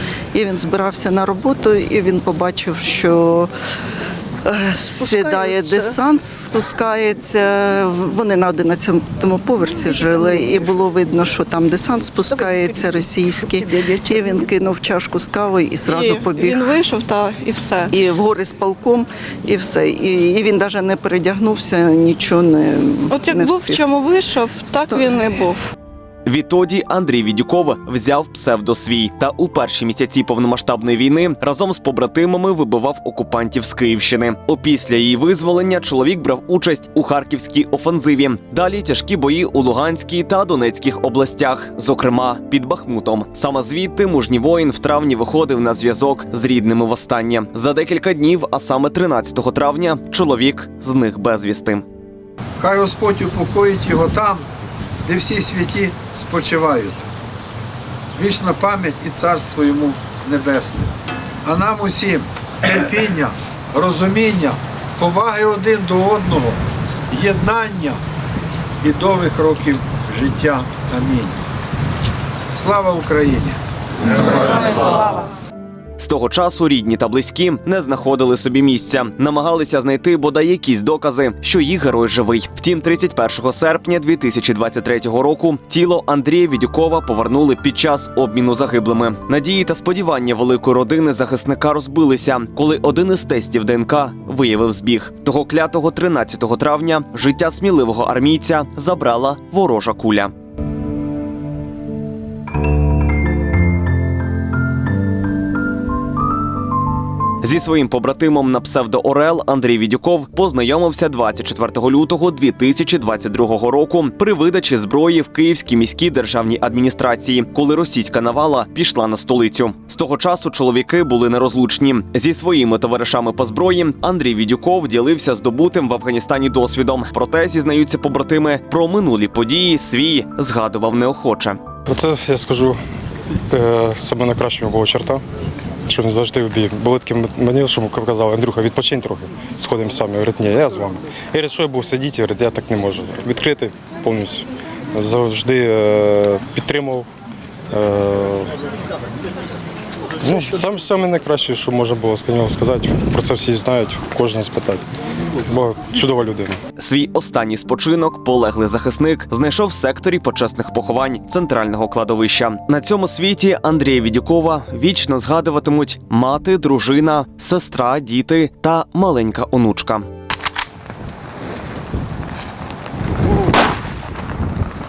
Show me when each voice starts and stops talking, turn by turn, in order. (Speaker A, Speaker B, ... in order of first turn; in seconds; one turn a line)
Speaker A: 0.3-3.5
Speaker A: 4.5-16.8
Speaker B: 5.0-5.9
Speaker B: 15.9-17.9
Speaker A: 17.9-23.9
Speaker B: 23.1-25.7
Speaker A: 24.8-25.1
Speaker C: 26.3-51.8
Speaker D: 52.6-54.5
Speaker D: 55.1-57.0
Speaker D: 58.2-60.9
Speaker D: 61.5-66.6
Speaker D: 67.1-68.0
Speaker D: 68.8-71.4
Speaker D: 72.5-73.6
Speaker D: 74.5-74.8
Speaker C: 76.0-100.3
Speaker C: 107.4-131.6
Speaker E: 131.9-132.8
Speaker E: 133.5-135.2
Speaker E: 135.9-147.1
Speaker E: 147.7-148.5
Speaker E: 150.2-154.9
Speaker E: 155.5-156.6
Speaker C: 156.8-170.1